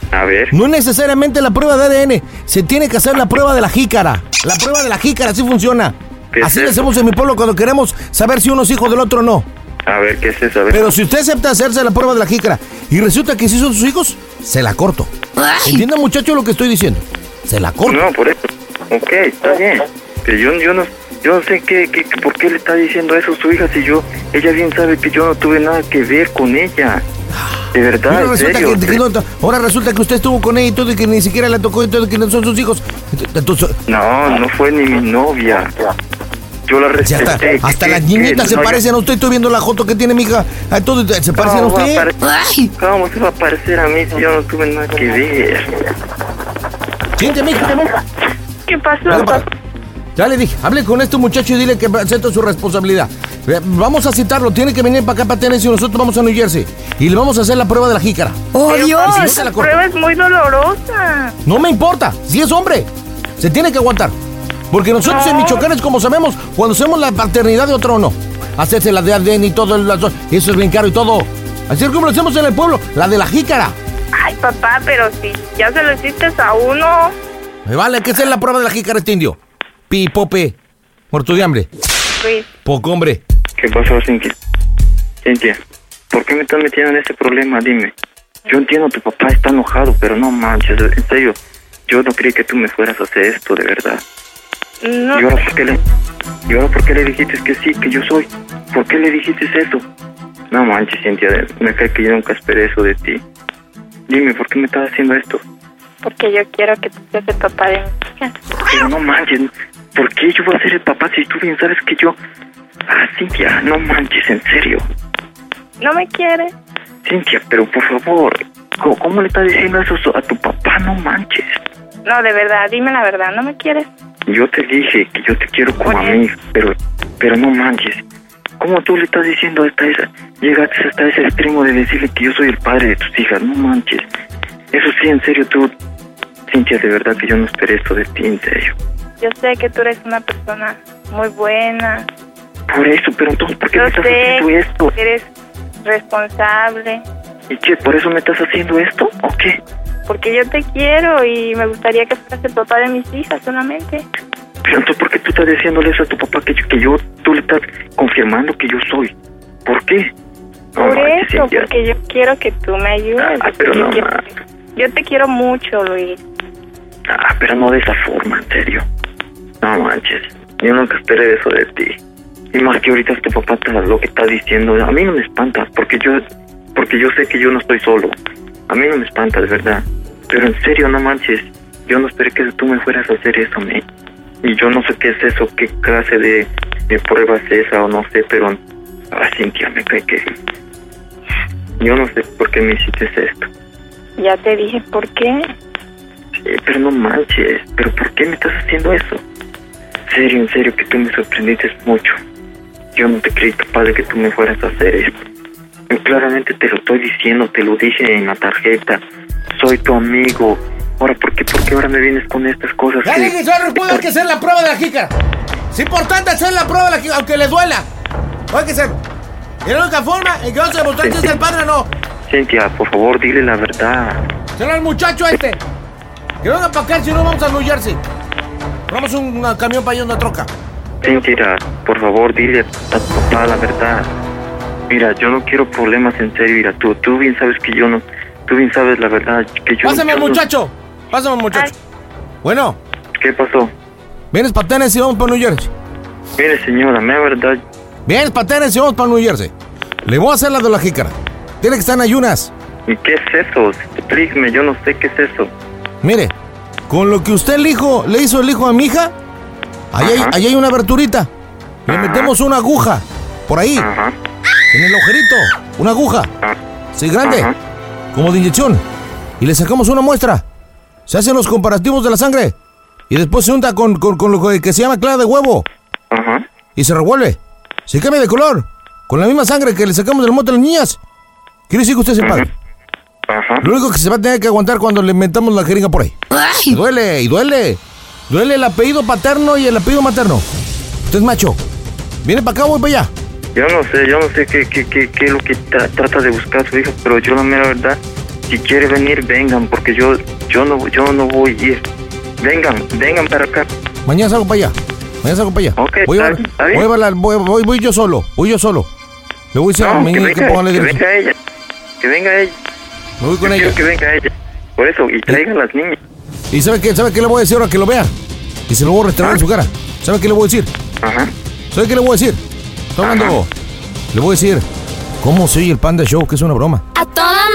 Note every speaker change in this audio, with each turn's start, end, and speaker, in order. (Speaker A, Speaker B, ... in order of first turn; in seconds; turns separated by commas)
Speaker A: 0.1-0.5, Speaker B: 0.5-9.5, Speaker A: 6.3-6.8, Speaker A: 9.8-10.9, Speaker B: 10.7-15.1, Speaker B: 15.6-18.1, Speaker A: 17.9-27.0, Speaker A: 27.7-29.0, Speaker B: 28.1-33.8, Speaker A: 33.9-35.7, Speaker A: 36.6-38.8, Speaker B: 37.0-42.1, Speaker A: 41.4-42.1, Speaker A: 42.8-45.9, Speaker B: 47.2-47.9, Speaker C: 48.7-49.5, Speaker B: 49.0-49.5, Speaker B: 50.1-59.7, Speaker C: 58.6-61.4, Speaker B: 61.5-62.9, Speaker B: 63.4-64.1, Speaker B: 64.7-73.8, Speaker C: 65.0-65.7, Speaker C: 74.1-77.2, Speaker B: 77.7-79.4, Speaker B: 79.9-80.5, Speaker B: 81.1-81.7, Speaker C: 82.2-82.5, Speaker B: 82.6-83.2, Speaker A: 83.6-84.3, Speaker A: 85.2-85.6, Speaker A: 86.1-87.9, Speaker A: 88.5-94.0, Speaker C: 94.8-95.2, Speaker A: 95.1-95.8, Speaker A: 96.5-99.8, Speaker A: 100.5-103.2, Speaker A: 104.1-105.4, Speaker C: 106.0-108.3, Speaker A: 108.6-112.2, Speaker A: 112.9-114.8, Speaker C: 115.8-116.5, Speaker A: 117.0-121.6, Speaker C: 122.0-123.9, Speaker A: 124.3-128.0, Speaker C: 125.8-126.2, Speaker A: 128.6-134.1, Speaker A: 134.7-135.7, Speaker A: 136.5-138.7, Speaker C: 139.2-142.1, Speaker A: 142.7-144.9, Speaker C: 143.8-145.3, Speaker C: 145.8-147.0, Speaker A: 147.5-149.6, Speaker C: 150.1-154.0, Speaker A: 154.6-159.1, Speaker A: 159.6-160.1, Speaker A: 160.7-161.7, Speaker C: 160.8-166.2, Speaker A: 163.2-164.2, Speaker A: 167.1-168.8, Speaker A: 169.6-172.0, Speaker A: 172.5-176.2, Speaker A: 176.7-178.1, Speaker A: 178.7-183.8, Speaker A: 184.4-188.6, Speaker A: 189.1-190.3, Speaker A: 191.8-193.5, Speaker C: 194.2-195.5, Speaker A: 196.4-199.2, Speaker A: 200.1-202.2, Speaker A: 202.9-205.2, Speaker A: 205.9-209.0, Speaker A: 209.5-214.1, Speaker B: 213.0-215.1, Speaker B: 215.7-217.9, Speaker B: 218.5-219.0, Speaker B: 219.6-221.9, Speaker A: 221.0-221.3, Speaker A: 222.3-224.2, Speaker B: 224.6-225.6, Speaker B: 226.4-228.0, Speaker B: 228.9-230.5, Speaker A: 231.0-234.1, Speaker A: 234.9-240.4, Speaker B: 239.8-241.7, Speaker B: 242.4-242.8, Speaker A: 243.2-243.7, Speaker B: 244.3-245.7, Speaker A: 246.4-247.6, Speaker B: 248.1-249.5, Speaker B: 250.0-252.5, Speaker A: 252.9-255.5, Speaker B: 256.0-256.3, Speaker B: 256.9-259.1, Speaker B: 259.9-261.3, Speaker A: 260.0-260.4, Speaker B: 261.9-263.9, Speaker A: 261.9-262.3, Speaker A: 263.8-264.1, Speaker B: 264.7-266.3, Speaker B: 266.9-267.5, Speaker A: 267.2-267.6, Speaker B: 268.1-268.8, Speaker B: 269.4-270.4, Speaker B: 271.1-272.5, Speaker B: 273.1-275.6, Speaker A: 276.1-276.4, Speaker B: 276.8-281.0, Speaker B: 281.7-282.4, Speaker A: 282.2-282.5, Speaker A: 283.3-283.7, Speaker B: 283.6-286.1, Speaker B: 286.7-290.4, Speaker B: 291.1-291.6, Speaker B: 292.2-293.1, Speaker A: 293.5-301.8, Speaker A: 302.4-303.7, Speaker B: 304.1-308.9, Speaker A: 305.8-306.9, Speaker B: 309.5-311.0, Speaker A: 309.8-311.3, Speaker A: 312.0-312.5, Speaker B: 313.2-313.8, Speaker A: 313.4-316.0, Speaker B: 316.5-318.1, Speaker B: 318.7-320.7, Speaker A: 321.0-321.3, Speaker B: 321.7-322.4, Speaker B: 322.9-323.5, Speaker A: 323.0-323.4, Speaker B: 324.1-324.6, Speaker B: 325.2-326.8